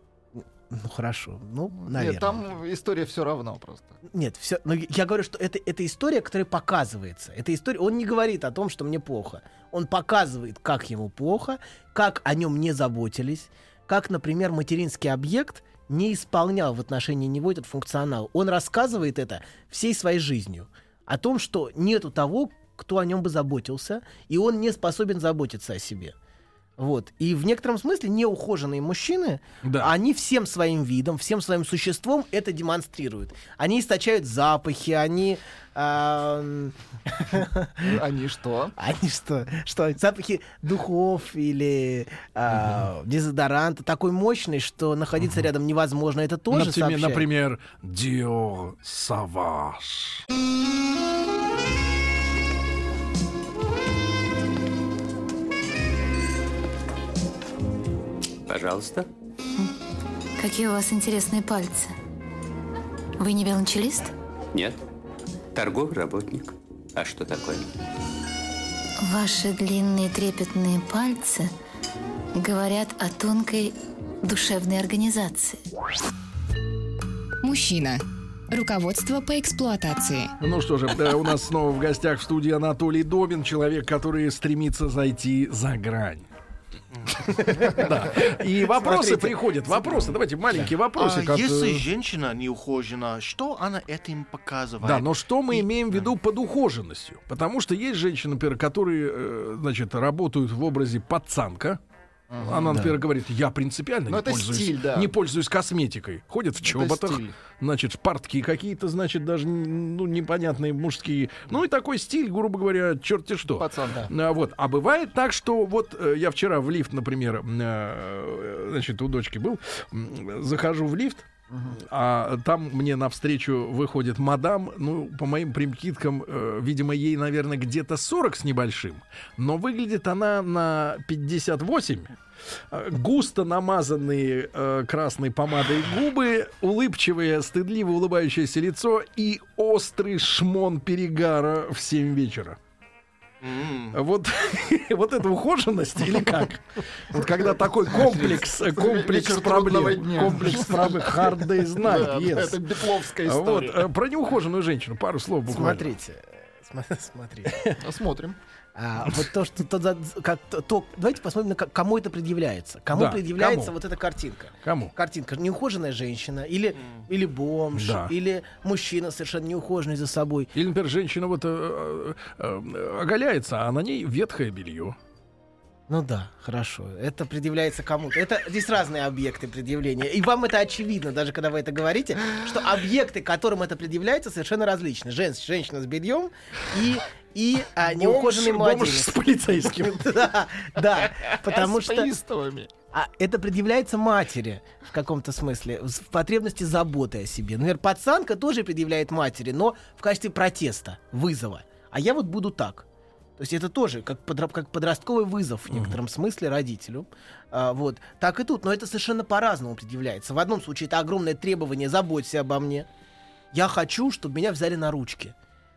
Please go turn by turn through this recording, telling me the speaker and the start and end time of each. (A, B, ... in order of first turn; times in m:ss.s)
0:00.7-0:02.4 A
0:01.8-0:04.0 B
0:04.1-0:26.2 A
0:26.8-0:37.9 A
0:29.6-0:29.9 C
0:37.8-0:38.8 B
0:38.8-0:47.3 A
0:46.5-0:50.2 C
0:58.5-0:59.1 D
1:00.4-1:02.0 E
1:03.2-1:04.1 E
1:05.6-1:07.7 D
1:09.0-1:11.5 E
1:12.4-1:15.6 E
1:17.4-1:20.3 F
1:20.4-1:26.3 C
1:26.9-1:27.3 G
1:27.4-1:27.9 A
1:27.8-1:31.9 C
1:28.7-1:30.7 A
1:31.0-1:36.1 G
1:34.8-1:41.8 C
1:42.3-1:42.8 B
1:42.4-2:12.1 C
1:44.1-1:45.1 B
1:46.6-1:47.3 B
1:53.6-1:54.1 B
2:01.5-2:01.8 B
2:12.7-2:22.6 C
2:23.4-2:24.0 G
2:23.9-2:32.7 C
2:27.9-2:33.9 B
2:33.2-2:35.9 C
2:35.5-2:37.7 A
2:37.8-2:38.4 B
2:38.8-2:50.5 A
2:42.9-2:43.8 C
2:44.6-2:44.9 C
2:46.8-2:47.0 G
2:47.8-2:48.1 C
2:50.5-2:55.0 C
2:55.9-3:12.1 A
3:07.8-3:10.0 C
3:11.3-3:12.7 B
3:12.9-3:22.9 A
3:23.4-3:32.9 A
3:25.7-3:26.0 C
3:33.5-3:35.3 A